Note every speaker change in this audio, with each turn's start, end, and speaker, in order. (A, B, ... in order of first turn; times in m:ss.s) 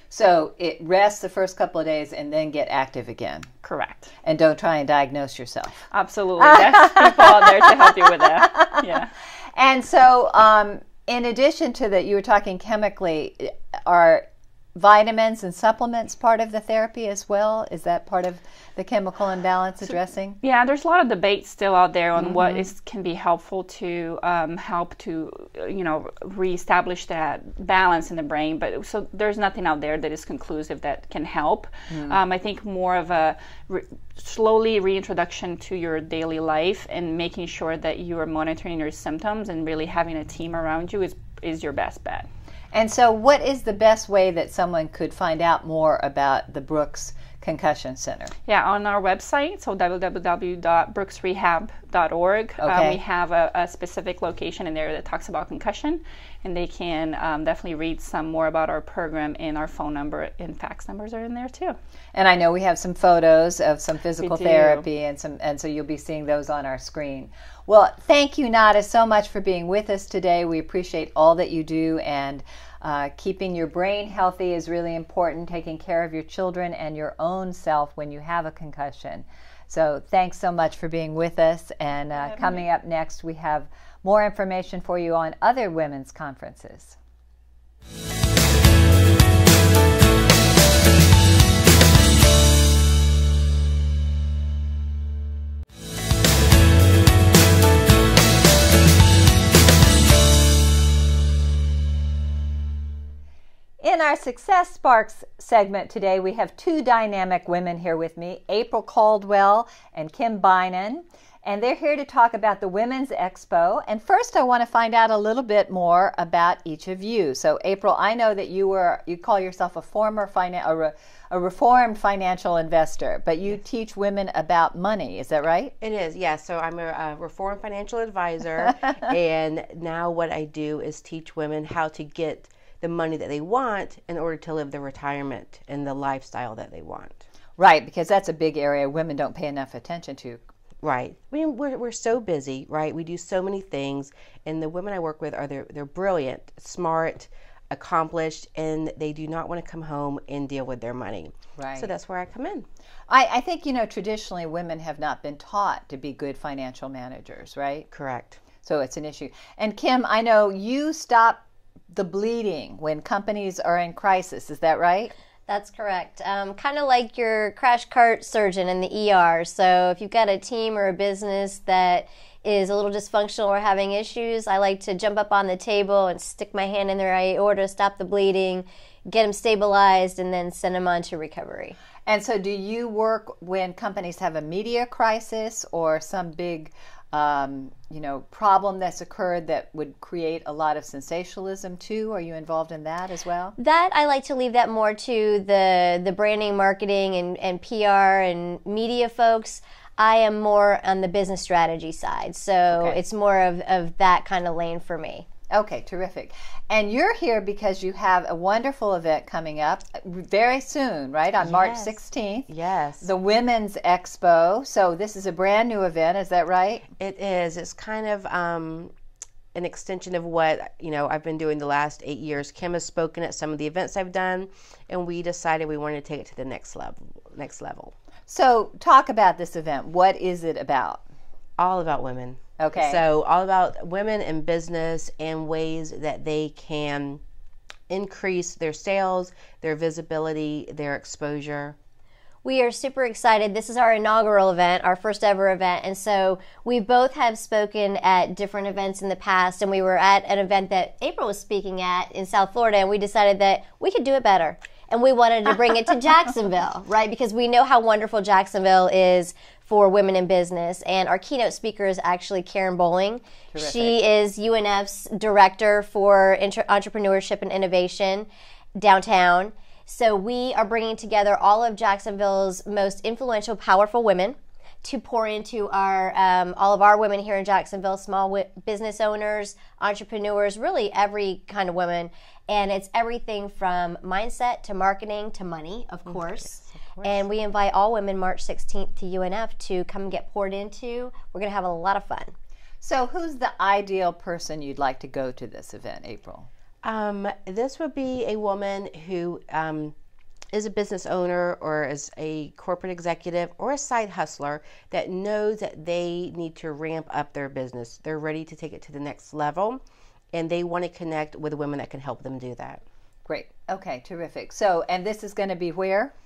0:00.1-0:03.5 A
0:03.6-0:04.1 B
0:04.2-0:05.7 A
0:05.9-0:09.1 B
0:06.4-0:08.8 A
0:09.6-0:20.4 A
0:20.4-0:42.3 B
0:22.2-0:22.7 A
0:31.9-0:32.2 A
0:42.7-0:48.3 A
0:48.5-1:01.8 B
0:52.6-0:53.0 A
1:02.2-1:27.0 A
1:04.2-1:04.9 B
1:22.3-1:22.6 B
1:43.8-2:05.7 A
2:05.8-2:17.2 C
2:17.6-2:20.4 A
2:20.8-2:32.7 C
2:31.6-2:31.9 A
2:33.1-2:37.9 A
2:37.9-2:38.4 C
2:38.6-2:41.4 A
2:41.9-2:45.1 A
2:45.5-3:01.8 D
3:02.1-3:13.6 A
3:13.6-3:25.3 D
3:22.7-3:23.0 A
3:25.5-3:32.5 A
3:31.4-3:33.1 C
3:33.0-3:36.8 A
3:37.0-3:38.9 C
3:39.5-3:47.9 C
3:48.3-3:51.0 A
3:51.6-3:57.2 C
3:52.6-3:53.0 A
3:57.9-4:01.8 C
4:02.4-4:52.3 D
4:23.5-4:24.0 A
4:46.1-4:47.3 C
4:52.8-4:56.5 A
4:56.8-5:00.0 C
5:00.5-5:09.8 C
5:10.3-5:12.8 C
5:13.3-5:16.1 A